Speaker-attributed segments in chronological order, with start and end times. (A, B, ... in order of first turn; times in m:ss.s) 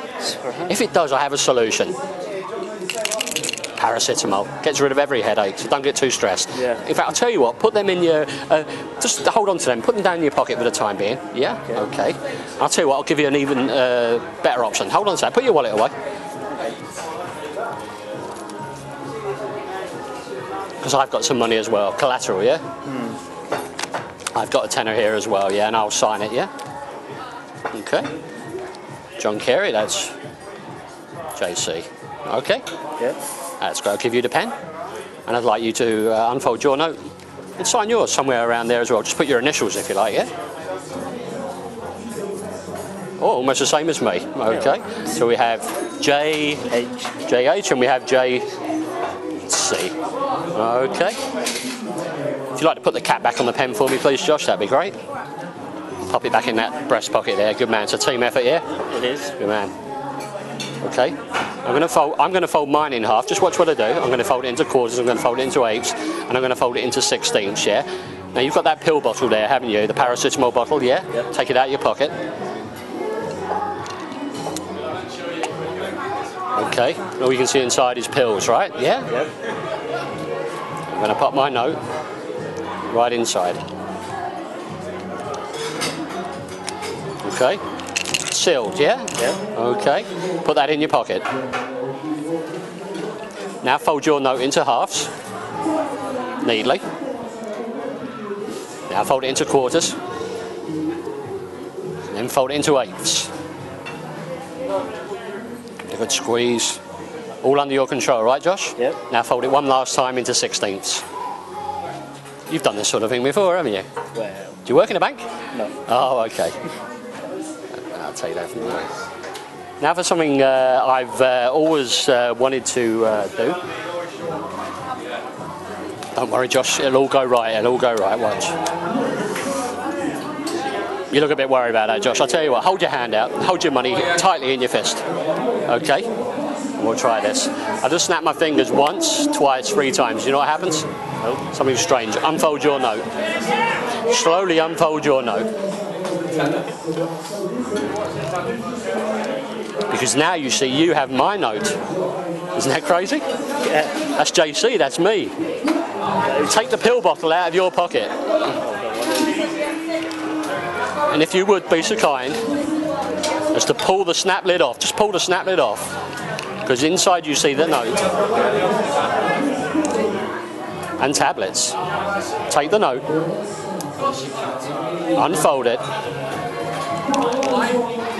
0:00.2-0:00.7 A
0:00.7-0:02.0 B
0:03.8-0:15.9 B
0:06.6-0:06.8 A
0:20.8-0:22.6 B
0:22.9-0:23.2 A
0:24.3-0:26.5 B
0:27.7-0:28.1 B
0:29.2-0:30.2 B
0:31.4-0:32.6 B
0:33.6-0:34.5 B
0:35.3-0:37.0 B
0:37.6-0:40.3 B
0:43.2-0:46.7 B
0:46.7-0:47.1 A
0:47.2-0:48.5 B
0:49.4-0:50.0 B
0:50.5-0:51.2 B
0:52.6-0:55.0 B
0:56.0-0:58.6 B
0:58.9-0:59.4 A
0:59.4-0:59.7 B
1:00.8-1:12.2 B
1:16.5-1:19.2 B
1:20.9-1:21.8 B
1:22.9-1:23.6 B
1:27.2-1:27.6 B
1:28.3-1:31.3 B
1:33.6-1:35.1 B
1:36.4-1:36.8 B
1:38.9-1:40.0 B
1:42.1-1:43.3 B
1:45.9-1:46.8 B
1:47.4-1:51.0 B
1:52.5-1:53.9 B
1:54.2-1:54.6 A
1:54.6-1:55.2 B
1:55.8-1:56.6 B
1:57.8-1:58.9 B
1:59.8-2:03.6 B
2:06.2-2:08.6 B
2:11.1-2:15.0 B
2:15.7-2:16.1 B
2:16.8-2:20.9 B
2:21.4-2:23.1 B
2:24.1-2:25.5 B
2:29.9-2:31.8 B
2:32.6-2:33.2 B
2:33.6-2:33.9 A
2:34.1-2:35.3 B
2:36.3-2:38.2 B
2:38.6-2:39.5 A
2:41.1-2:42.4 B
2:43.5-2:45.9 B
2:46.6-2:48.0 B
2:51.0-2:51.8 B
2:52.5-2:53.1 B
2:55.2-2:55.8 B